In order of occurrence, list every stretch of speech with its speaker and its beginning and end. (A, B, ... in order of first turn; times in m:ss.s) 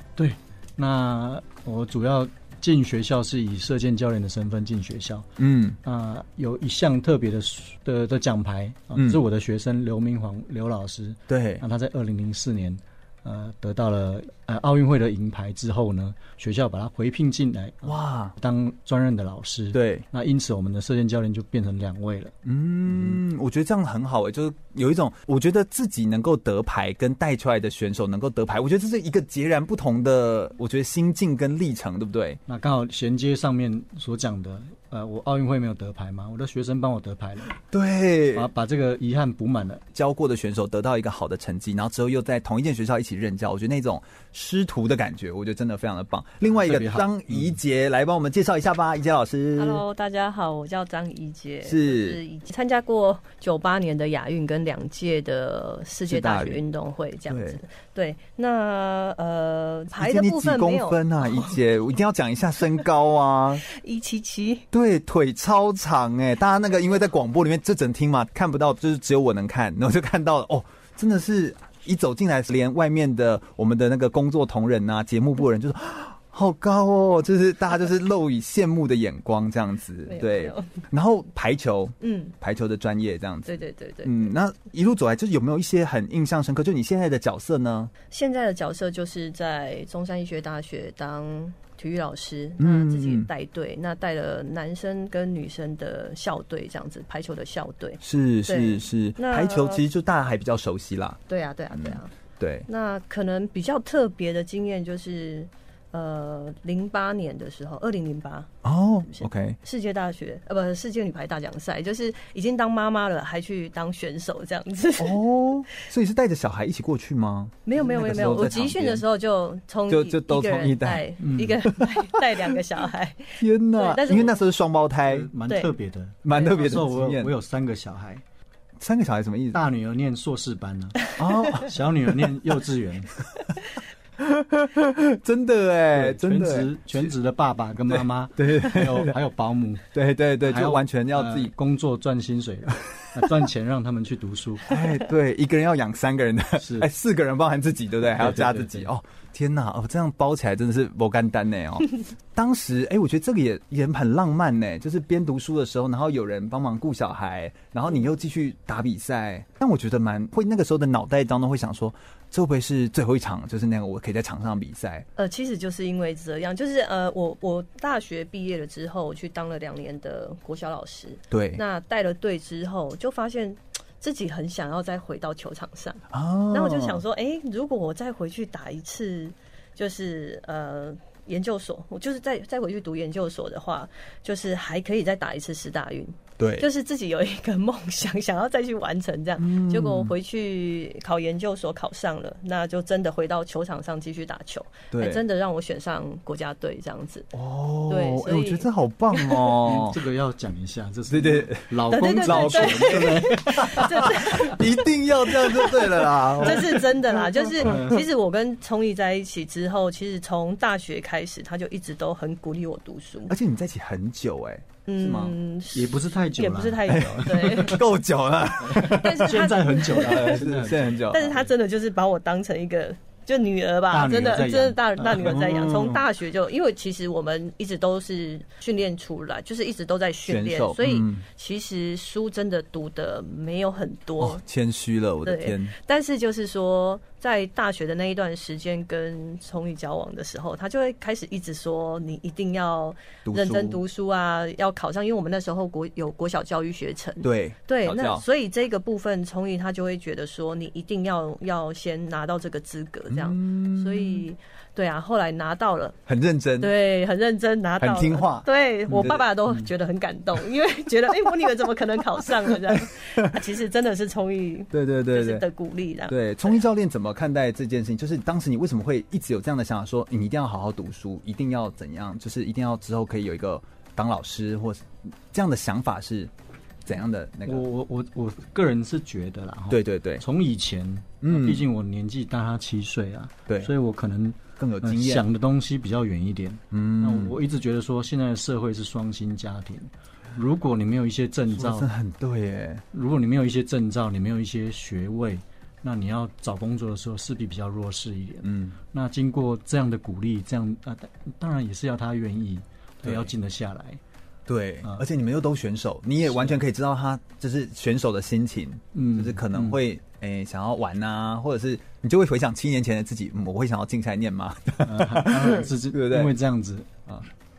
0:00.2-0:05.3 A
0:05.4-0:05.8 B
0:05.8-0:22.3 A
0:09.0-0:09.2 B
0:11.3-0:11.6 B
0:17.8-0:18.3 B
0:19.7-0:20.0 B
0:22.4-0:32.4 B
0:22.9-0:23.2 A
0:32.5-0:37.6 A
0:37.7-0:38.5 B
0:38.4-0:39.8 A
0:39.9-0:49.8 B
0:46.5-0:47.6 A
0:49.6-1:01.6 C
0:51.6-0:52.2 B
0:56.1-0:56.6 B
0:57.3-0:57.6 B
1:00.0-1:03.6 B
1:03.7-1:04.6 C
1:04.7-1:27.9 B
1:20.1-1:20.7 C
1:22.0-1:22.3 C
1:23.5-1:24.3 C
1:28.1-1:39.8 C
1:32.6-1:33.3 B
1:38.0-1:41.2 B
1:41.3-1:42.1 C
1:41.7-1:42.7 B
1:42.7-1:48.5 C
1:48.6-1:49.6 B
1:49.1-1:55.2 C
1:55.0-1:59.0 B
1:57.7-2:04.4 C
1:59.9-2:01.1 B
2:01.2-2:01.6 A
2:01.7-2:02.5 B
2:03.4-2:05.3 B
2:05.1-2:08.2 A
2:06.2-2:07.3 B
2:08.8-2:09.6 B
2:09.5-2:13.1 A
2:11.2-2:11.7 B
2:14.2-2:17.1 B
2:15.9-2:19.9 A
2:17.9-2:19.1 B
2:19.9-2:21.5 B
2:20.4-2:24.7 A
2:24.7-2:45.1 B
2:26.6-2:26.9 A
2:28.1-2:28.9 A
2:45.2-3:17.3 C
2:51.3-2:51.6 B
2:56.1-2:57.0 B
3:06.4-3:06.7 B
3:09.4-3:10.1 B
3:14.9-3:15.2 B
3:17.3-3:20.0 B
3:17.9-3:19.6 C
3:19.6-3:24.6 A
3:21.1-3:27.7 B
3:21.9-3:24.6 C
3:25.4-3:33.3 C
3:27.6-3:28.0 A
3:33.3-3:35.4 B
3:34.9-3:37.9 C
3:35.7-3:37.8 A
3:36.9-3:41.4 B
3:38.6-3:41.3 A
3:38.7-3:40.4 C
3:41.1-3:54.4 C
3:43.9-3:45.7 A
3:45.2-3:46.0 B
3:50.3-3:51.2 B
3:54.2-3:55.7 B
3:55.2-4:16.0 C
4:03.3-4:03.8 B
4:07.2-4:08.2 B
4:13.1-4:14.3 B
4:16.1-4:16.7 B
4:16.6-4:26.6 C
4:17.8-4:19.2 B
4:18.9-4:19.6 A
4:22.7-4:23.4 B
4:24.7-4:25.4 B
4:26.1-4:36.3 B
4:36.8-4:37.6 B
4:37.5-4:51.9 A
4:39.7-4:40.2 B
4:41.2-4:41.6 B
4:43.5-4:43.7 B
4:44.6-4:45.3 B
4:46.7-4:47.4 B
4:51.5-4:52.8 B
4:52.9-5:04.0 A
4:58.4-4:58.8 B
5:03.0-5:03.3 B
5:04.5-5:16.3 B
5:06.2-5:06.6 A
5:08.9-5:09.8 A
5:14.8-5:16.9 A